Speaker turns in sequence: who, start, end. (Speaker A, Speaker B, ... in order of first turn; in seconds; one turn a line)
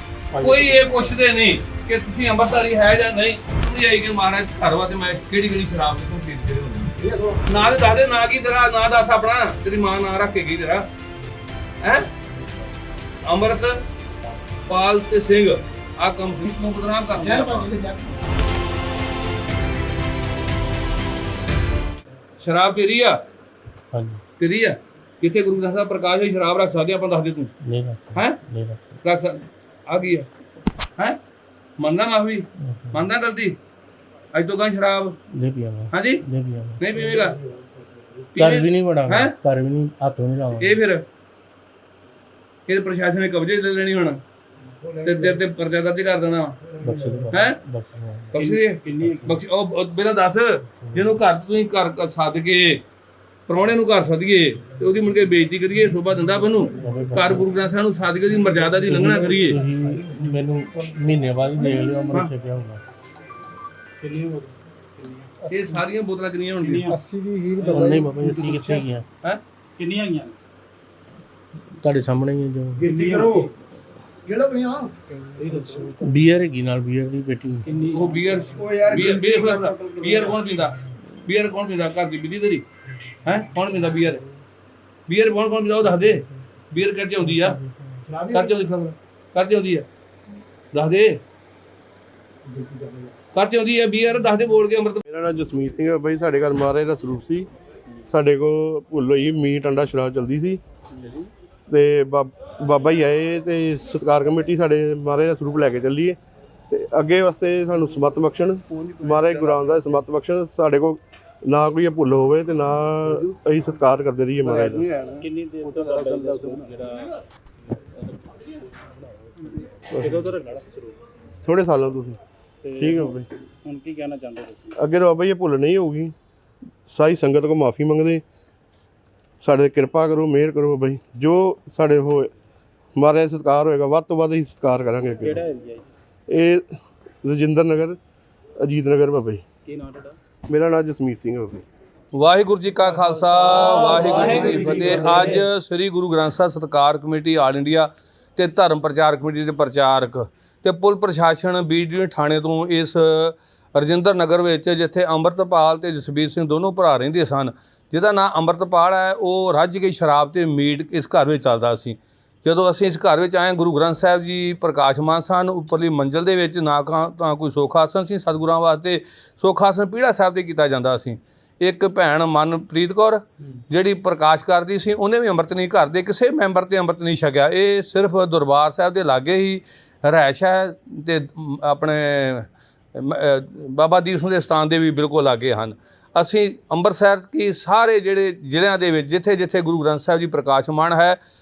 Speaker A: 0.3-0.9
Speaker B: 0.4-6.9
Speaker A: 7.0-7.7
Speaker B: 7.5-10.9
Speaker B: 11.8-12.1
Speaker B: 13.2-13.8
Speaker B: 14.7-17.7
Speaker A: 17.1-18.1
Speaker B: 22.4-23.2
Speaker C: 23.9-24.2
Speaker B: 24.4-27.5
Speaker C: 27.6-29.0
Speaker B: 28.1-28.4
Speaker B: 29.0-30.3
Speaker B: 31.8-33.6
Speaker C: 32.6-33.0
Speaker B: 34.3-35.1
Speaker C: 35.3-36.8
Speaker B: 35.9-36.2
Speaker B: 36.8-37.4
Speaker A: 37.0-38.2
Speaker B: 38.3-39.4
Speaker C: 38.4-40.8
Speaker B: 40.6-41.0
Speaker B: 42.7-44.2
Speaker A: 44.8-45.4
Speaker B: 45.0-46.6
Speaker A: 46.6-47.3
Speaker C: 46.8-48.4
Speaker B: 47.3-47.6
Speaker B: 48.3-52.8
Speaker D: 48.4-49.4
Speaker C: 50.8-51.1
Speaker B: 53.5-59.6
Speaker C: 56.7-57.5
Speaker C: 58.8-62.8
Speaker D: 64.0-65.3
Speaker A: 65.4-65.8
Speaker B: 65.5-66.9
Speaker D: 66.6-67.0
Speaker A: 66.9-68.2
Speaker D: 67.6-68.8
Speaker C: 67.7-69.0
Speaker B: 68.7-69.4
Speaker D: 69.8-70.3
Speaker C: 71.8-72.8
Speaker A: 72.8-73.5
Speaker D: 72.8-73.5
Speaker A: 74.2-76.2
Speaker D: 75.4-76.0
Speaker C: 76.0-77.9
Speaker D: 77.6-80.4
Speaker B: 77.9-82.6
Speaker A: 77.9-78.4
Speaker B: 83.2-84.2
Speaker B: 85.1-87.6
Speaker C: 87.2-88.0
Speaker A: 88.1-88.5
Speaker B: 88.3-89.9
Speaker B: 90.7-91.2
Speaker A: 92.5-93.1
Speaker B: 93.3-95.0
Speaker E: 95.0-97.5
Speaker E: 98.1-100.6
Speaker D: 101.0-101.3
Speaker E: 101.7-106.2
Speaker E: 106.7-114.9
Speaker B: 108.7-109.8
Speaker B: 114.4-116.5
Speaker D: 115.1-117.2
Speaker D: 119.4-121.0
Speaker E: 119.9-120.2
Speaker E: 121.4-122.2
Speaker D: 122.6-124.8
Speaker E: 122.8-123.3
Speaker E: 124.8-126.1
Speaker E: 126.9-128.2
Speaker E: 129.4-132.3
Speaker E: 132.9-135.4
Speaker D: 135.2-135.8
Speaker E: 136.3-136.7
Speaker E: 137.2-138.0
Speaker E: 138.6-139.4
Speaker D: 139.6-140.2
Speaker E: 140.5-141.6
Speaker B: 142.1-191.2
Speaker D: 143.0-145.4